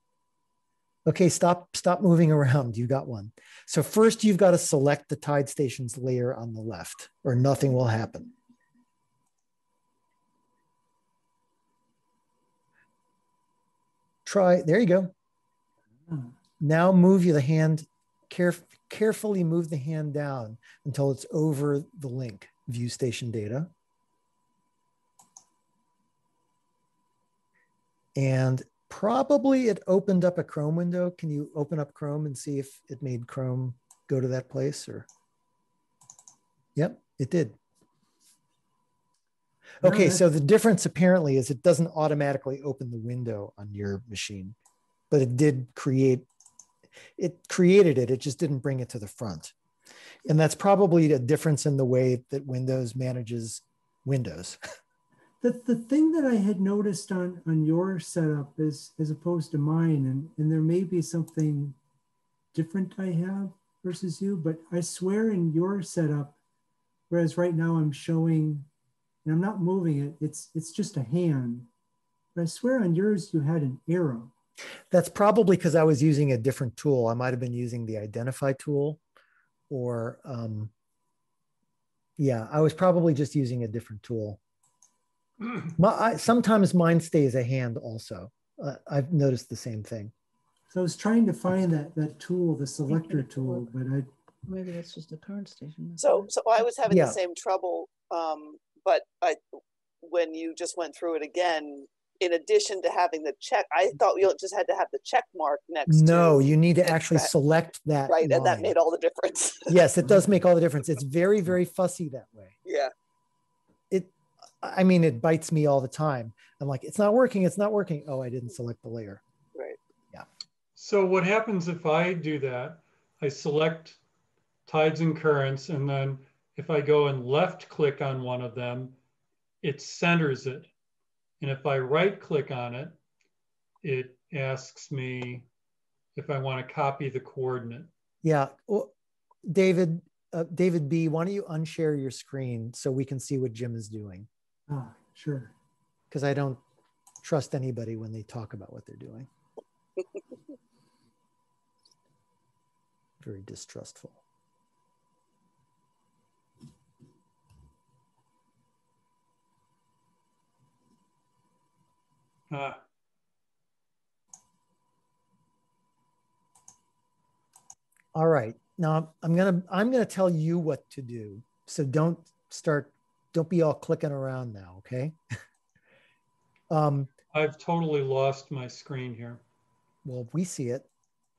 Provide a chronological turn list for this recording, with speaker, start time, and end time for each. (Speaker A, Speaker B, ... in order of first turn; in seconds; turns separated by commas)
Speaker A: 1.1-8.3, Speaker A: 14.3-15.1, Speaker A: 16.6-23.7, Speaker A: 28.2-35.1, Speaker A: 36.8-37.6, Speaker B: 39.8-40.2, Speaker A: 39.8-44.6, Speaker A: 45.1-46.3, Speaker A: 47.2-49.5, Speaker A: 50.3-54.6, Speaker B: 55.4-61.8, Speaker B: 62.5-66.4, Speaker B: 67.1-68.7, Speaker B: 69.2-71.7, Speaker B: 72.3-74.3, Speaker A: 74.9-79.0, Speaker A: 79.7-80.7, Speaker A: 82.2-84.4, Speaker A: 85.8-90.1, Speaker B: 90.7-94.1, Speaker C: 92.9-93.7, Speaker C: 94.5-96.3, Speaker D: 96.0-99.4, Speaker A: 96.9-97.2, Speaker D: 100.0-107.3, Speaker A: 105.9-108.8, Speaker D: 108.1-109.8, Speaker A: 109.7-112.6, Speaker D: 112.7-112.9, Speaker A: 114.6-119.2, Speaker E: 120.8-124.0, Speaker E: 124.7-129.0, Speaker E: 129.6-130.7, Speaker E: 131.4-132.9, Speaker E: 133.8-135.5, Speaker E: 136.2-137.9, Speaker A: 138.2-138.9, Speaker A: 139.5-144.3, Speaker B: 144.7-145.5, Speaker A: 146.1-146.6, Speaker A: 147.2-149.3, Speaker A: 153.2-154.2, Speaker E: 162.5-162.8, Speaker A: 168.2-175.2, Speaker A: 176.7-177.1, Speaker E: 177.3-179.4, Speaker A: 180.1-180.9